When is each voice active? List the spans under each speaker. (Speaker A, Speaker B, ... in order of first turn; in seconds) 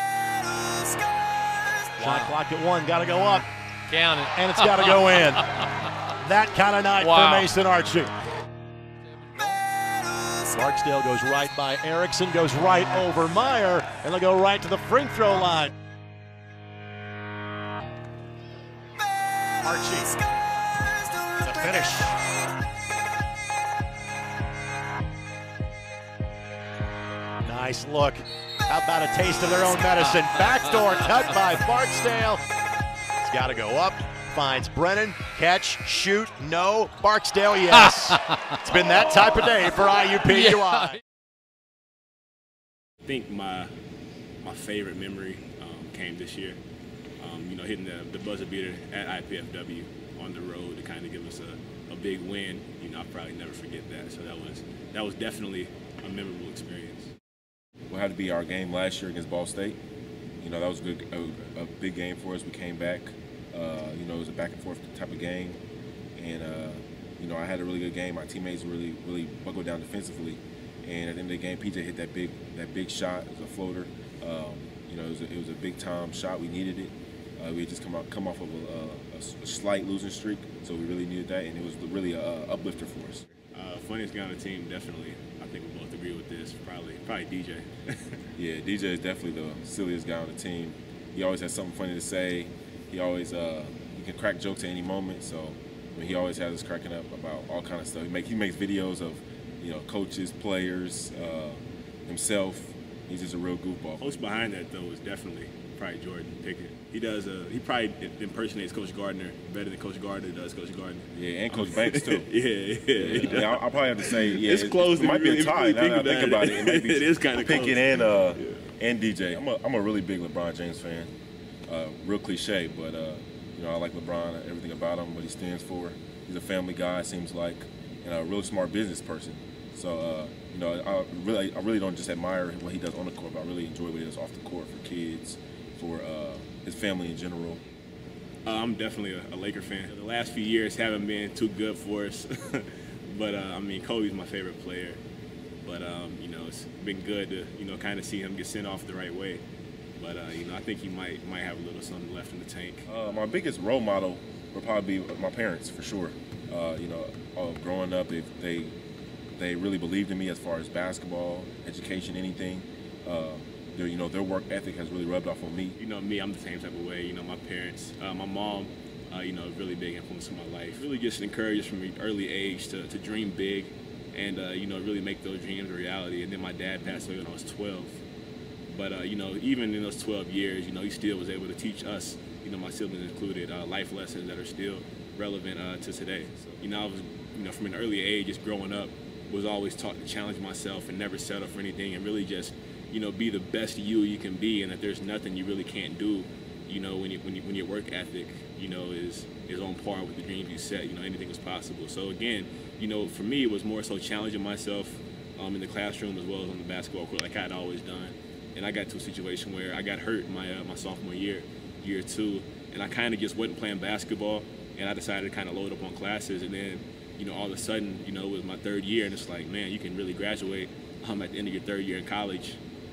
Speaker A: 2.0-3.5, 4.3-5.5, 6.2-8.1, 10.4-15.7, 19.6-20.2, 21.3-22.2, 27.4-32.4, 33.2-41.0
Speaker B: 2.0-2.3, 3.9-5.0, 7.0-7.5, 9.1-9.6, 38.2-38.6
Speaker C: 43.1-43.7, 44.4-46.6, 47.2-57.1, 83.5-88.2, 104.0-118.7, 138.5-145.0, 145.7-149.4, 150.0-152.9, 165.8-178.0, 178.7-222.6
Speaker D: 57.9-59.8, 60.4-65.6, 66.2-83.3, 88.4-104.4, 111.1-112.3, 113.0-121.1, 121.7-137.6, 152.9-158.7, 159.4-165.8